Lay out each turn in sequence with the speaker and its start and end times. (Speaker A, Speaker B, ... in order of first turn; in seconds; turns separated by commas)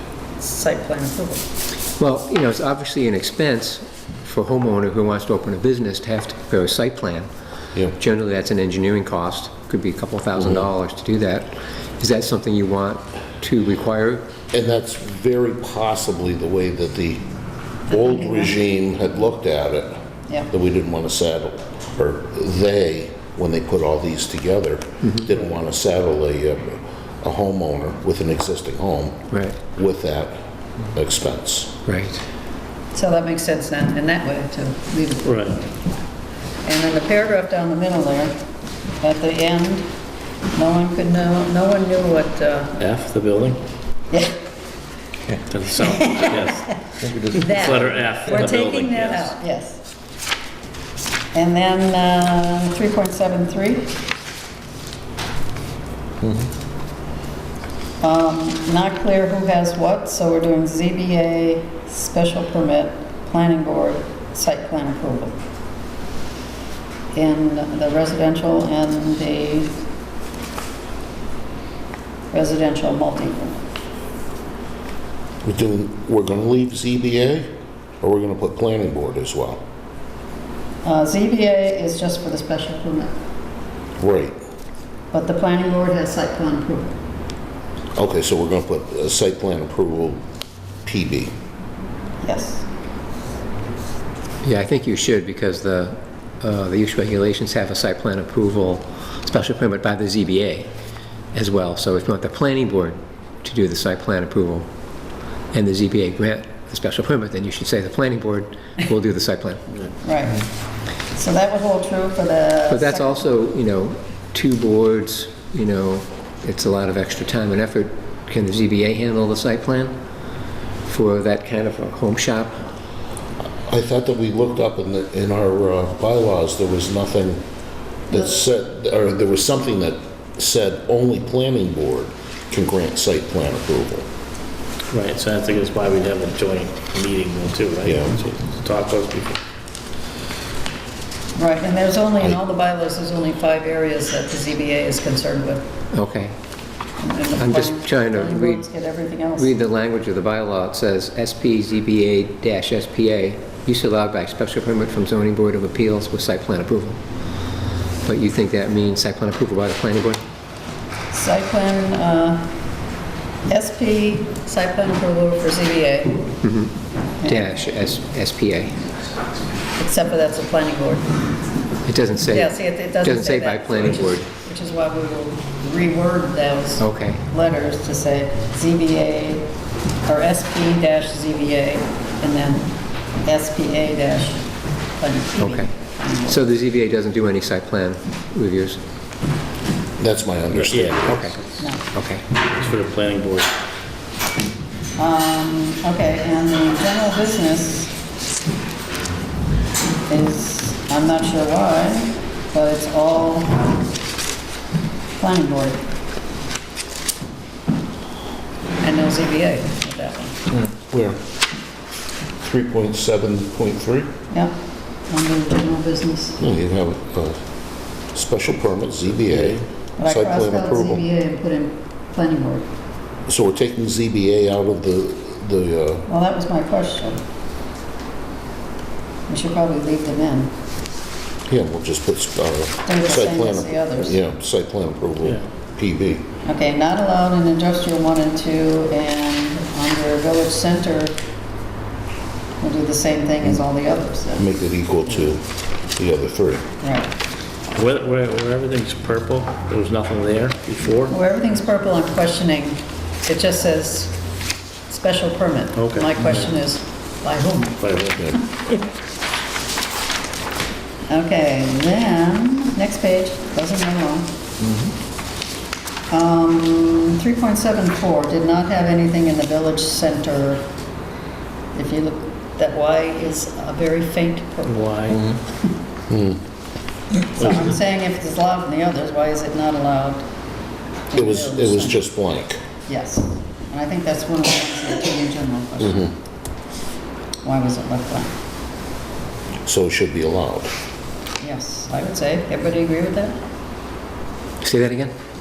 Speaker A: 0.4-1.4, Speaker B: 2.0-7.3, Speaker B: 8.0-14.3, Speaker C: 10.4-10.6, Speaker C: 14.5-17.2, Speaker C: 17.9-20.0, Speaker A: 17.9-18.5, Speaker C: 20.5-30.4, Speaker B: 25.0-25.3, Speaker B: 29.3-29.6, Speaker C: 30.9-31.8, Speaker B: 31.9-32.2, Speaker A: 32.9-35.4, Speaker D: 35.2-35.6, Speaker A: 36.6-38.3, Speaker A: 39.0-39.9, Speaker A: 40.5-42.8, Speaker D: 42.8-43.6, Speaker A: 44.1-44.4, Speaker D: 45.4-46.8, Speaker A: 46.0-46.6, Speaker C: 47.0-47.5, Speaker A: 47.3-49.8, Speaker D: 47.3-49.3, Speaker A: 51.3-54.0, Speaker A: 58.0-65.4, Speaker A: 67.1-69.8, Speaker A: 72.3-73.7, Speaker C: 75.4-79.6, Speaker A: 80.8-83.1, Speaker C: 84.0-84.3, Speaker A: 85.1-87.0, Speaker C: 88.0-90.2, Speaker C: 90.8-91.3, Speaker A: 92.2-92.7, Speaker B: 94.4-100.7, Speaker B: 101.3-104.7, Speaker B: 105.5-109.6, Speaker A: 110.0-110.5, Speaker A: 111.1-113.2, Speaker B: 112.7-119.9, Speaker B: 120.8-122.6, Speaker C: 123.7-127.4, Speaker C: 128.1-134.1, Speaker D: 134.9-139.4, Speaker C: 137.8-138.2, Speaker A: 141.3-145.6, Speaker B: 145.9-146.3, Speaker A: 147.0-149.5, Speaker B: 147.4-148.7, Speaker B: 149.4-157.0, Speaker B: 158.0-160.2, Speaker A: 161.1-162.5, Speaker A: 163.5-166.3, Speaker B: 166.4-166.7, Speaker A: 167.2-167.5, Speaker B: 167.2-168.8, Speaker A: 169.8-171.1, Speaker B: 171.8-174.2, Speaker A: 172.3-179.5, Speaker B: 176.8-177.2, Speaker A: 180.1-186.4, Speaker B: 185.4-185.7, Speaker B: 186.2-188.8, Speaker C: 190.0-191.3, Speaker D: 190.5-191.6, Speaker B: 191.1-192.2, Speaker A: 191.6-191.8, Speaker D: 192.5-193.5, Speaker A: 194.9-197.9, Speaker A: 200.1-203.8, Speaker A: 205.2-205.8, Speaker A: 208.8-210.3, Speaker C: 210.5-211.2, Speaker C: 212.4-214.1, Speaker A: 214.3-214.5, Speaker A: 215.1-216.4, Speaker C: 216.4-217.4, Speaker C: 218.1-221.0, Speaker A: 220.0-222.7, Speaker C: 223.3-226.1, Speaker A: 226.1-227.2, Speaker A: 229.3-230.5, Speaker C: 231.5-236.2, Speaker A: 232.8-234.2, Speaker A: 236.4-241.2, Speaker A: 242.6-244.5, Speaker C: 244.4-246.7, Speaker A: 246.8-247.1, Speaker D: 247.7-251.1, Speaker A: 251.1-254.2, Speaker A: 254.9-257.8, Speaker D: 255.8-256.5, Speaker D: 257.8-258.4, Speaker A: 261.1-264.4, Speaker A: 266.1-270.7, Speaker A: 271.7-275.3, Speaker D: 274.7-275.2, Speaker C: 276.1-276.4, Speaker A: 277.4-280.2, Speaker D: 277.4-277.7, Speaker A: 281.1-282.1, Speaker C: 281.1-282.6, Speaker A: 282.9-286.1, Speaker A: 287.4-288.3, Speaker C: 289.6-290.7, Speaker A: 291.4-293.4, Speaker B: 294.6-295.1